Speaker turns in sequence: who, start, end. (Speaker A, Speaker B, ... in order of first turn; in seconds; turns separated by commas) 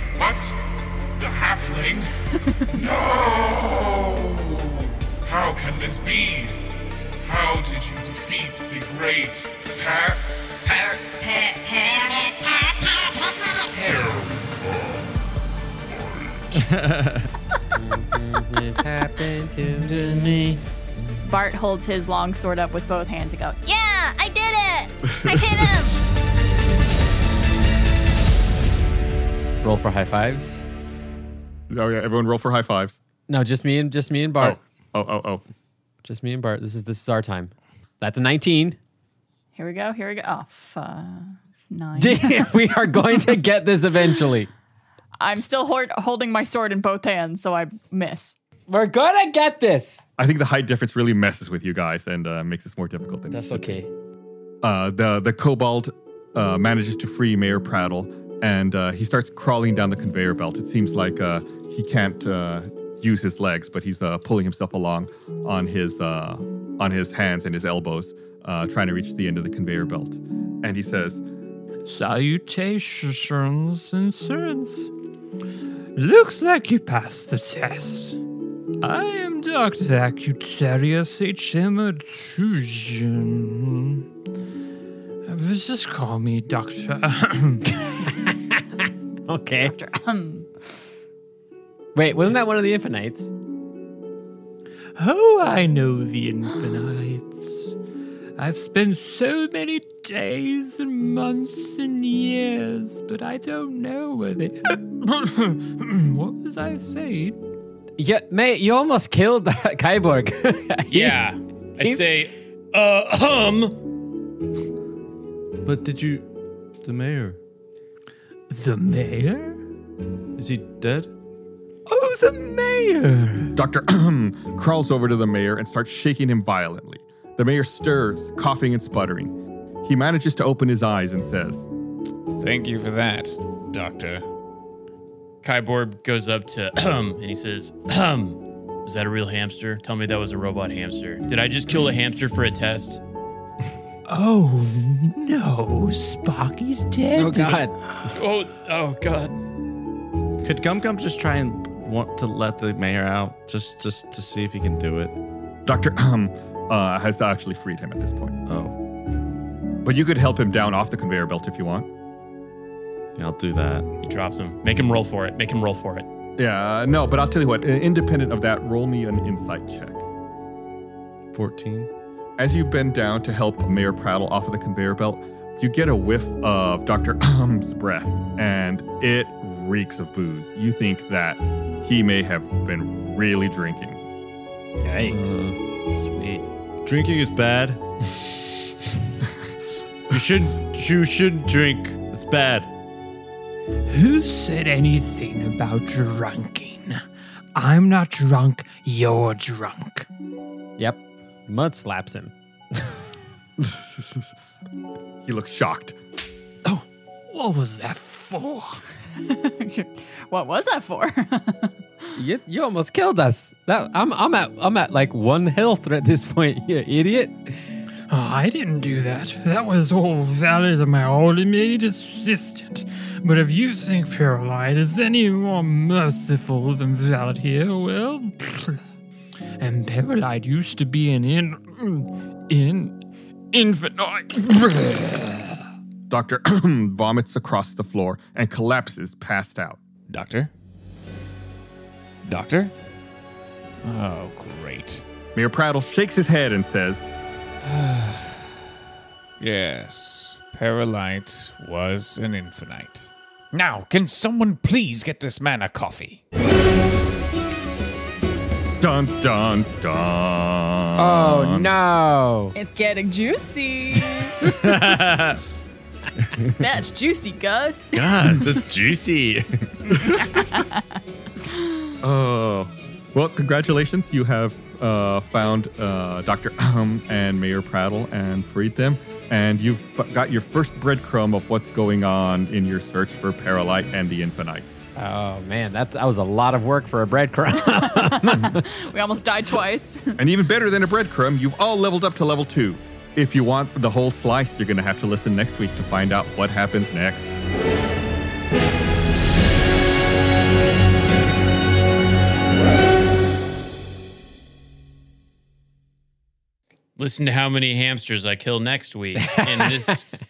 Speaker A: 0.1-0.6, Speaker A: 1.2-2.1, Speaker B: 2.5-2.8, Speaker A: 2.7-6.6, Speaker A: 7.2-15.1, Speaker C: 16.5-17.3, Speaker D: 17.8-20.2, Speaker B: 21.2-23.7, Speaker A: 23.6-25.9, Speaker E: 25.1-25.7, Speaker D: 29.6-30.6, Speaker E: 31.7-33.0, Speaker D: 33.3-34.6, Speaker E: 34.4-35.4, Speaker D: 36.0-38.8, Speaker B: 39.6-43.4, Speaker D: 42.0-44.5, Speaker B: 45.2-48.4, Speaker D: 48.7-50.0, Speaker E: 50.2-53.8, Speaker D: 53.3-53.9, Speaker E: 54.6-71.2, Speaker F: 71.8-74.9, Speaker F: 76.0-78.2, Speaker F: 78.8-84.1, Speaker F: 85.3-87.7, Speaker D: 88.0-88.6, Speaker D: 89.3-89.8, Speaker B: 89.6-90.7, Speaker D: 92.0-93.3, Speaker F: 95.0-97.8, Speaker F: 98.4-107.4, Speaker D: 108.0-111.3, Speaker G: 110.9-113.8, Speaker D: 111.8-112.1, Speaker C: 115.6-116.3, Speaker C: 116.8-117.4, Speaker F: 118.5-119.6, Speaker C: 120.4-121.1, Speaker F: 121.9-123.5, Speaker E: 123.5-131.7, Speaker H: 132.4-134.3, Speaker G: 135.4-143.0, Speaker F: 144.1-147.7, Speaker D: 147.1-147.8, Speaker G: 148.1-149.4, Speaker C: 150.4-155.1, Speaker E: 155.7-158.4, Speaker C: 158.5-158.8, Speaker E: 159.8-161.9, Speaker C: 163.2-163.9, Speaker G: 164.0-166.1, Speaker E: 166.4-170.1, Speaker C: 171.3-171.9, Speaker E: 172.4-184.0, Speaker D: 184.8-185.5, Speaker C: 185.1-185.4, Speaker G: 185.9-186.4, Speaker C: 186.8-187.8, Speaker C: 190.1-192.7, Speaker F: 193.9-197.0, Speaker F: 197.6-200.1, Speaker D: 200.8-202.9, Speaker E: 203.6-204.3, Speaker E: 205.3-206.0, Speaker F: 206.6-208.8, Speaker B: 209.1-211.8, Speaker D: 212.2-217.6, Speaker F: 218.1-228.8, Speaker F: 229.6-233.0, Speaker F: 233.5-235.6, Speaker E: 236.1-239.8, Speaker H: 240.1-240.5, Speaker H: 242.2-242.7, Speaker H: 243.8-245.0, Speaker E: 245.3-247.1, Speaker H: 247.6-248.6, Speaker H: 249.4-256.2, Speaker E: 258.8-261.7, Speaker D: 261.0-262.6, Speaker B: 262.6-264.6, Speaker C: 264.4-265.4, Speaker C: 266.2-266.6, Speaker B: 266.6-268.1, Speaker C: 267.9-270.0, Speaker B: 270.0-271.9, Speaker E: 272.0-284.8, Speaker D: 284.9-288.6, Speaker B: 287.7-290.2, Speaker E: 290.2-297.3, Speaker G: 307.0-310.1, Speaker D: 309.2-309.6